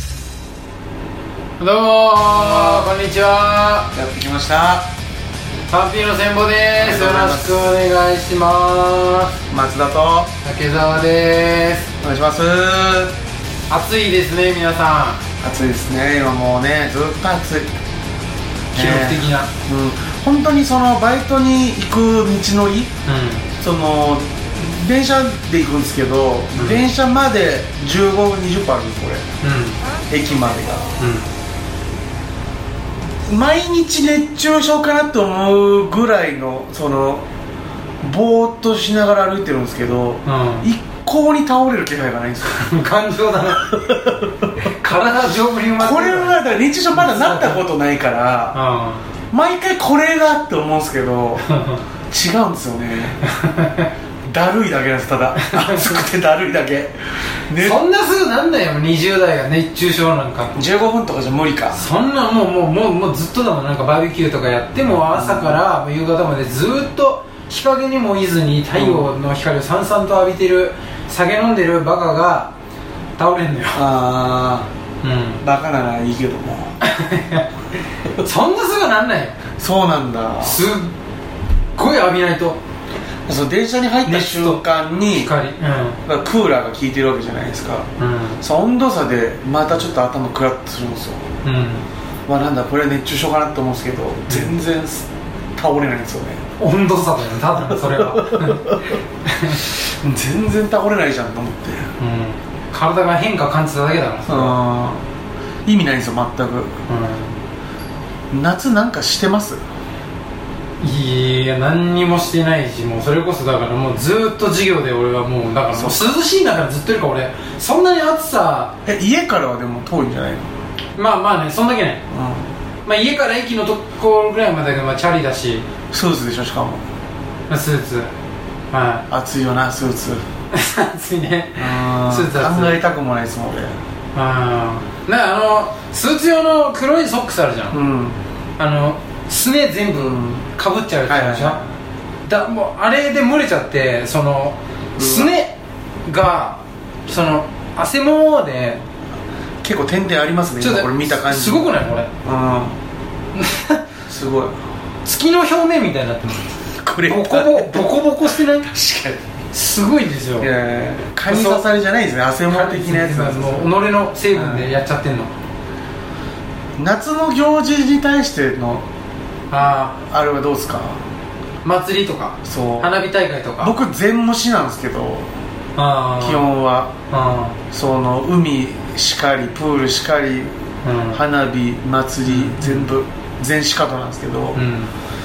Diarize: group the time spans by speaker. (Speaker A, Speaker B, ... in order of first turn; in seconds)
Speaker A: 1.6-3.9, 5.7-9.3, 10.4-11.9, 13.7-15.2, 18.7-19.5, 23.1-23.5, 26.6-26.8, 29.4-29.8, 31.0-31.3, 40.2-40.7, 42.4-43.8, 44.6-47.6, 48.5-49.0, 51.4-51.8, 53.3-53.9, 55.4-56.0, 57.6-60.6, 61.7-72.5, 73.2-73.8, 75.0-75.4, 76.8-77.5, 78.1-79.4, 80.4-80.9, 81.8-82.6, 84.0-86.0, 88.0-88.4, 91.4-91.8, 94.3-94.5, 96.6-99.6, 102.0-104.6, 106.9-107.3, 110.8-118.7, 121.0-122.0, 122.8-125.7, 127.5-128.1, 128.7-129.0, 130.5-132.8, 134.1-137.8, 138.6-141.6, 142.3-145.5, 146.1-148.8, 150.6-152.1, 153.4-153.8, 155.0-156.5, 157.1-158.7, 159.5-160.5, 161.3-161.6, 162.5-165.3, 169.5-170.0, 171.6-173.7, 175.8-176.5, 177.1-177.6, 180.8-181.2, 182.2-182.9, 184.5-184.9
Speaker B: 2.3-2.8, 3.9-4.9, 6.8-7.7, 9.5-10.3, 12.0-13.1, 15.4-17.7, 18.7-22.9, 23.6-29.2, 30.1-30.9, 33.3-37.2, 38.0-42.6, 45.8-48.6, 49.3-51.4, 52.1-53.2, 54.3-57.0, 57.5-57.8, 60.5-61.8, 65.1-65.6, 68.7-69.1, 73.7-74.7, 75.4-76.8, 79.6-80.6, 83.3-85.3, 86.0-87.9, 88.4-91.3, 92.3-96.4, 97.8-99.0, 99.6-101.9, 104.3-105.0, 105.6-106.7, 108.3-109.6, 115.7-116.1, 118.8-120.5, 122.1-122.5, 125.9-126.8, 129.1-130.2, 131.6-133.7, 137.7-138.2, 140.0-140.4, 141.1-141.6, 145.0-145.3, 149.6-151.7, 152.2-152.8, 154.1-154.6, 156.8-158.0, 158.6-159.3, 160.4-163.8, 164.3-164.7, 166.8-168.8, 170.0-171.0, 172.4-172.9, 173.6-175.3, 176.2-176.9, 177.7-180.5, 181.1-184.6